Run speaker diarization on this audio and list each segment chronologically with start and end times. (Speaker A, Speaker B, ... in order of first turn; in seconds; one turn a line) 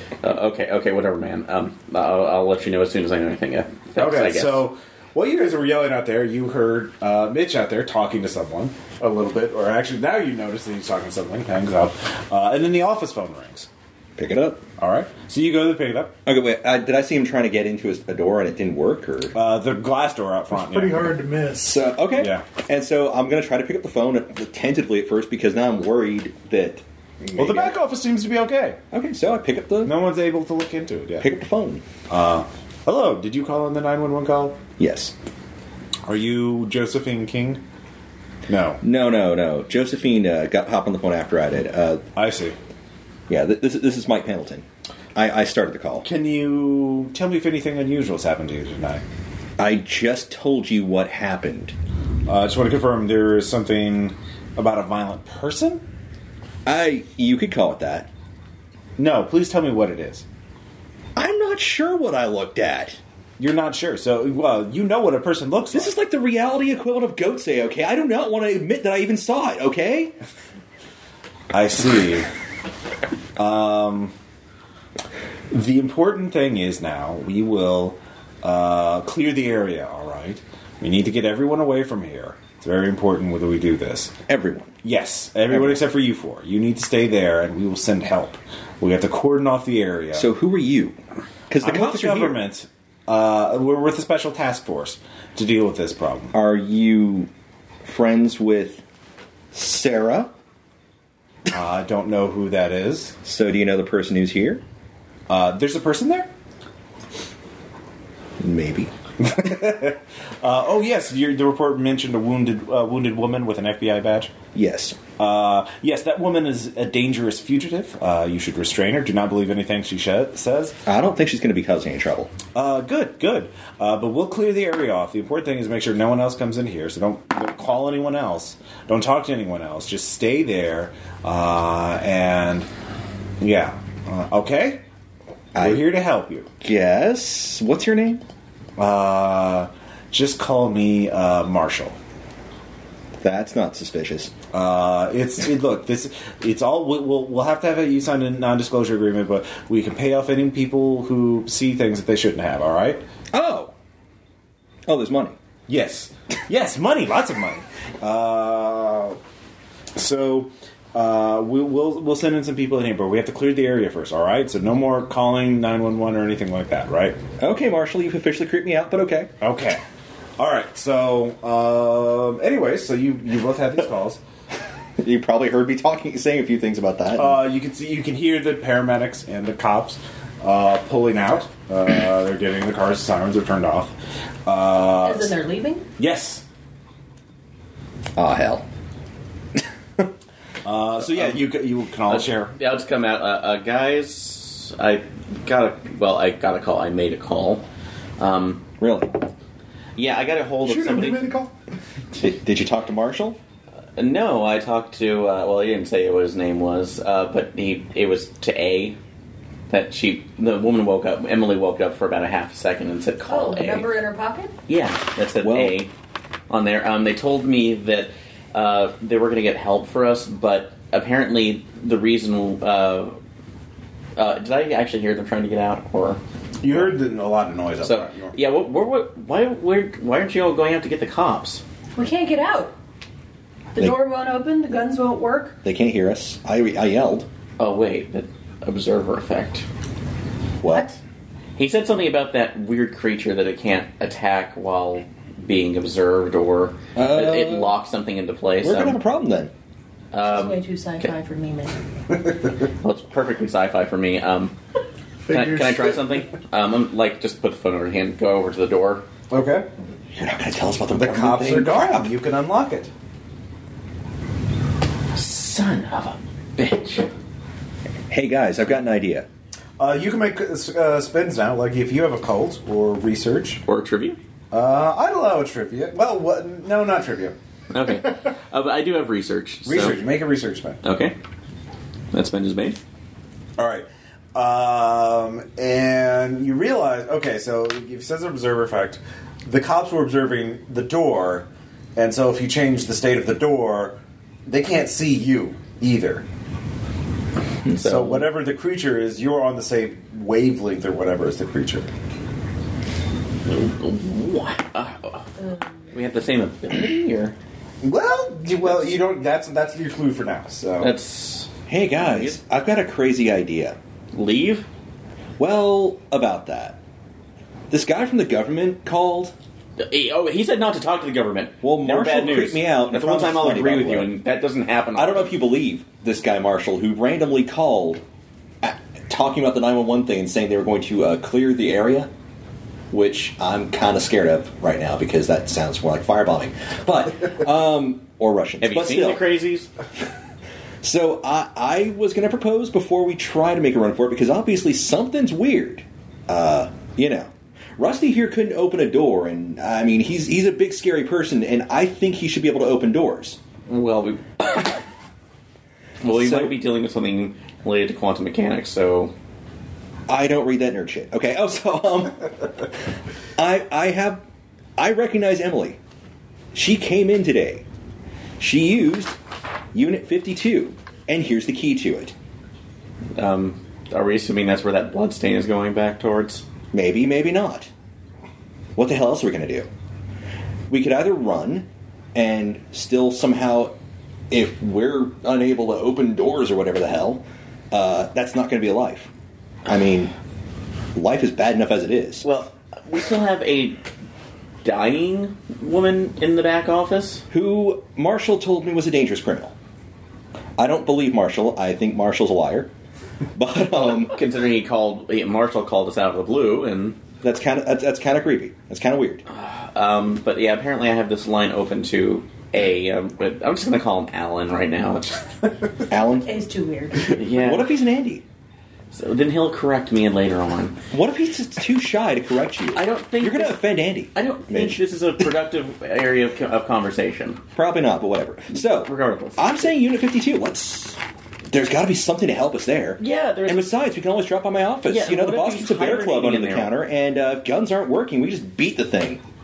Speaker A: 0.2-4.6
Speaker B: 4.0-13.7
Speaker C: 14.2-14.6
Speaker B: 14.8-16.1
Speaker C: 16.3-19.4
Speaker B: 19.4-21.1
Speaker D: 20.5-21.9
Speaker C: 21.6-27.8
Speaker B: 22.2-22.4
Speaker B: 27.4-28.8
Speaker C: 28.9-30.0
Speaker B: 29.8-31.3
Speaker C: 31.2-31.8
Speaker B: 32.1-34.6
Speaker C: 34.8-35.1
Speaker B: 36.1-37.6
Speaker B: 38.5-38.8
Speaker C: 38.8-42.0
Speaker B: 42.2-42.6
Speaker C: 43.3-46.1
Speaker B: 46.0-49.0
Speaker C: 49.6-51.7
Speaker B: 52.3-55.8
Speaker C: 56.7-58.1
Speaker B: 59.0-60.2
Speaker C: 61.2-63.0
Speaker B: 63.4-65.9
Speaker C: 65.7-70.1
Speaker B: 71.5-72.3
Speaker B: 73.4-74.1
Speaker B: 75.5-84.1
Speaker C: 84.3-84.7
Speaker B: 84.8-90.3
Speaker C: 85.5-85.8
Speaker C: 90.1-91.0
Speaker C: 91.5-92.4
Speaker B: 91.6-96.3
Speaker C: 96.3-97.3
Speaker C: 97.8-98.8
Speaker C: 99.5-100.3
Speaker B: 101.5-103.2
Speaker C: 103.2-104.6
Speaker B: 105.3-106.3
Speaker C: 108.4-108.9
Speaker B: 109.2-114.3
Speaker C: 114.5-115.0
Speaker B: 115.2-120.8
Speaker C: 120.9-122.3
Speaker B: 122.5-132.7
Speaker B: 133.4-134.8
Speaker C: 135.6-135.9
Speaker B: 135.6-136.5
Speaker C: 136.6-138.2
Speaker B: 138.8-142.0
Speaker C: 143.2-144.3
Speaker B: 144.5-153.0
Speaker C: 153.3-153.7
Speaker C: 154.9-155.4
Speaker B: 155.7-159.2
Speaker B: 160.0-167.2
Speaker C: 167.4-169.3
Speaker B: 169.4-169.8
Speaker B: 170.4-174.2
Speaker C: 175.0-177.4
Speaker B: 177.2-183.9
Speaker B: 184.5-185.4
Speaker E: 185.0-185.9
Speaker B: 186.0-186.4
Speaker C: 188.2-188.7
Speaker B: 190.6-192.5
Speaker A: 191.0-191.4
Speaker A: 192.1-197.7
Speaker A: 198.2-198.6
Speaker C: 198.8-199.1
Speaker A: 200.0-201.4
Speaker D: 200.6-201.5
Speaker C: 202.2-203.4
Speaker A: 204.0-209.0
Speaker A: 209.7-213.9
Speaker E: 213.3-214.5
Speaker A: 214.7-215.9
Speaker C: 215.4-215.8
Speaker A: 216.5-223.2
Speaker A: 224.2-226.9
Speaker B: 226.6-228.3
Speaker A: 227.8-231.6
Speaker E: 231.9-232.8
Speaker E: 233.7-235.6
Speaker C: 235.6-237.3
Speaker A: 237.6-239.7
Speaker C: 240.6-240.9
Speaker E: 240.7-240.9
Speaker A: 241.6-249.0
Speaker C: 247.0-247.7
Speaker C: 248.6-249.5
Speaker A: 250.1-251.1
Speaker E: 250.2-251.7
Speaker A: 252.7-254.6
Speaker D: 255.3-256.0
Speaker A: 255.3-259.1
Speaker B: 259.3-259.7
Speaker C: 260.2-262.1
Speaker B: 260.9-262.9
Speaker A: 265.1-267.1
Speaker C: 268.1-269.3
Speaker B: 269.8-273.6
Speaker A: 273.7-274.2
Speaker B: 274.5-277.4
Speaker A: 277.7-280.0
Speaker B: 279.7-280.8
Speaker A: 280.8-281.1
Speaker A: 282.1-282.8
Speaker B: 283.6-296.3
Speaker A: 297.7-298.3
Speaker B: 297.8-301.9
Speaker A: 303.5-305.3
Speaker A: 305.9-307.4
Speaker B: 307.8-310.9
Speaker A: 310.8-312.4
Speaker C: 311.7-313.8
Speaker A: 314.1-314.7
Speaker C: 315.4-316.8
Speaker C: 317.7-319.3
Speaker A: 319.8-325.4
Speaker C: 321.6-324.1
Speaker C: 325.0-328.0
Speaker C: 328.6-332.1
Speaker C: 332.9-339.2
Speaker A: 338.6-339.7
Speaker C: 340.8-353.4
Speaker A: 353.7-354.8
Speaker A: 356.0-359.1
Speaker C: 356.1-356.5
Speaker C: 360.1-362.7
Speaker C: 363.4-364.2
Speaker C: 364.8-365.8
Speaker C: 366.5-367.6
Speaker C: 368.4-369.1
Speaker C: 369.7-372.1
Speaker A: 373.2-376.4
Speaker C: 376.7-377.7
Speaker C: 378.8-379.7
Speaker C: 380.7-383.8
Speaker C: 384.3-389.1
Speaker C: 389.7-390.1
Speaker C: 390.9-392.3
Speaker A: 392.2-393.8
Speaker A: 394.6-397.2
Speaker C: 397.3-399.5
Speaker C: 400.6-402.7
Speaker C: 403.4-404.2
Speaker A: 404.0-407.0
Speaker C: 407.2-409.2
Speaker A: 409.3-415.5
Speaker C: 415.9-416.3
Speaker E: 416.2-417.2
Speaker A: 417.1-417.8
Speaker C: 417.1-418.2
Speaker A: 418.9-420.8
Speaker C: 420.9-424.8
Speaker A: 422.7-427.4
Speaker C: 427.6-431.0
Speaker A: 428.6-429.7
Speaker C: 431.5-439.2
Speaker A: 433.0-433.7
Speaker A: 434.9-436.8